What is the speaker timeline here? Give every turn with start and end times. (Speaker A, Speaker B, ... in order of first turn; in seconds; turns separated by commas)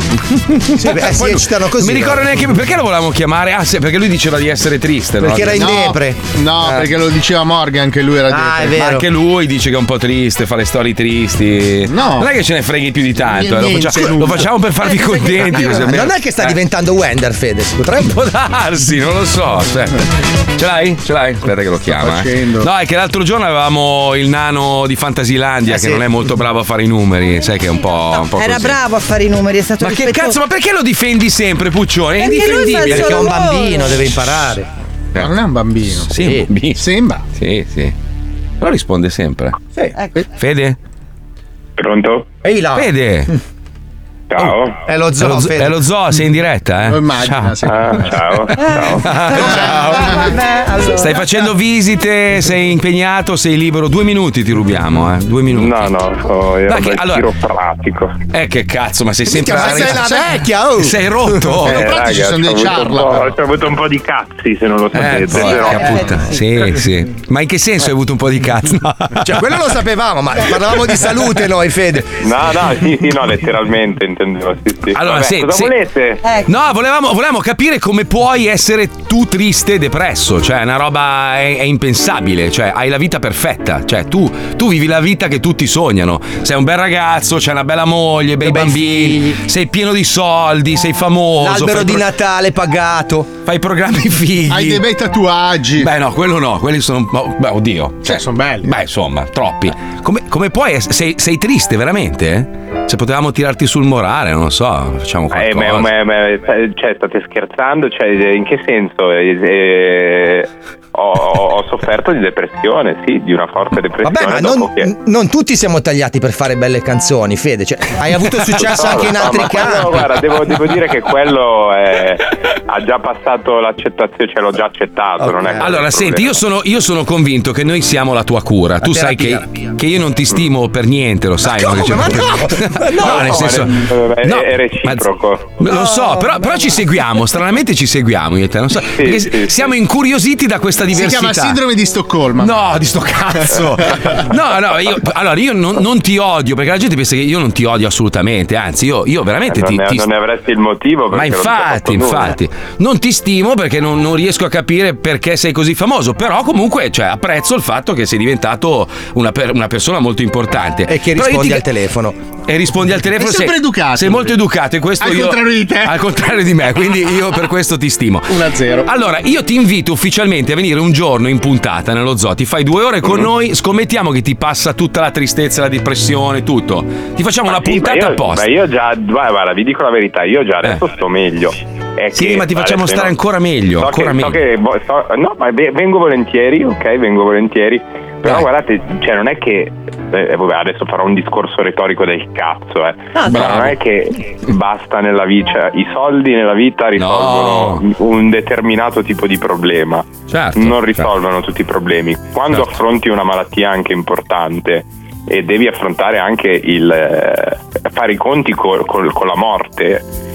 Speaker A: 0.7-2.3, Speaker B: 0.8-5.7, Speaker A: 5.2-6.9, Speaker C: 5.5-8.8, Speaker A: 8.3-9.1, Speaker B: 8.7-16.6, Speaker C: 11.9-12.3, Speaker C: 13.2-14.5, Speaker A: 15.5-18.2, Speaker B: 18.1-20.0, Speaker B: 20.6-28.8, Speaker C: 21.9-22.7, Speaker A: 25.7-26.0, Speaker D: 28.1-30.4, Speaker B: 29.8-33.3, Speaker D: 32.2-33.9, Speaker A: 32.8-34.7, Speaker C: 35.1-36.1, Speaker B: 36.1-36.8, Speaker A: 36.2-36.5, Speaker C: 36.8-37.2, Speaker B: 37.4-38.0, Speaker B: 38.6-39.6, Speaker B: 40.3-40.8, Speaker E: 41.8-42.3, Speaker A: 42.4-42.9, Speaker B: 42.7-43.3, Speaker E: 44.3-44.8, Speaker A: 44.9-45.8, Speaker B: 45.2-47.7, Speaker C: 46.9-48.3, Speaker E: 47.7-49.0, Speaker B: 48.9-50.3, Speaker D: 49.3-51.2, Speaker C: 49.4-50.3, Speaker B: 50.9-56.0, Speaker E: 55.5-58.2, Speaker B: 56.7-57.3, Speaker B: 58.3-60.1, Speaker A: 59.3-61.0, Speaker C: 59.5-60.4, Speaker B: 60.8-61.9, Speaker C: 61.6-63.3, Speaker E: 61.8-66.0, Speaker B: 64.9-69.4, Speaker D: 65.5-66.4, Speaker A: 69.2-72.1, Speaker E: 72.2-76.2, Speaker B: 74.9-75.8, Speaker B: 76.4-92.1, Speaker A: 88.4-89.4, Speaker A: 91.4-93.3, Speaker B: 93.5-94.8, Speaker C: 94.5-95.9, Speaker B: 95.8-105.9, Speaker C: 98.0-98.7, Speaker E: 105.3-114.9, Speaker A: 114.0-120.0, Speaker E: 118.6-126.4, Speaker A: 125.2-125.7, Speaker B: 125.6-141.6, Speaker A: 128.8-129.6, Speaker A: 131.4-133.7, Speaker E: 133.1-135.6, Speaker D: 135.8-136.6, Speaker E: 138.9-139.7, Speaker C: 140.9-142.7, Speaker B: 142.4-150.1, Speaker E: 149.4-152.4, Speaker B: 151.1-161.7, Speaker A: 160.9-162.2, Speaker B: 162.5-168.3, Speaker C: 163.2-164.3, Speaker C: 165.0-166.0, Speaker C: 168.3-168.9, Speaker B: 168.8-178.5, Speaker E: 177.5-183.2, Speaker B: 182.1-184.4, Speaker E: 183.8-210.0, Speaker B: 193.2-193.8, Speaker B: 197.0-197.8, Speaker B: 200.3-201.1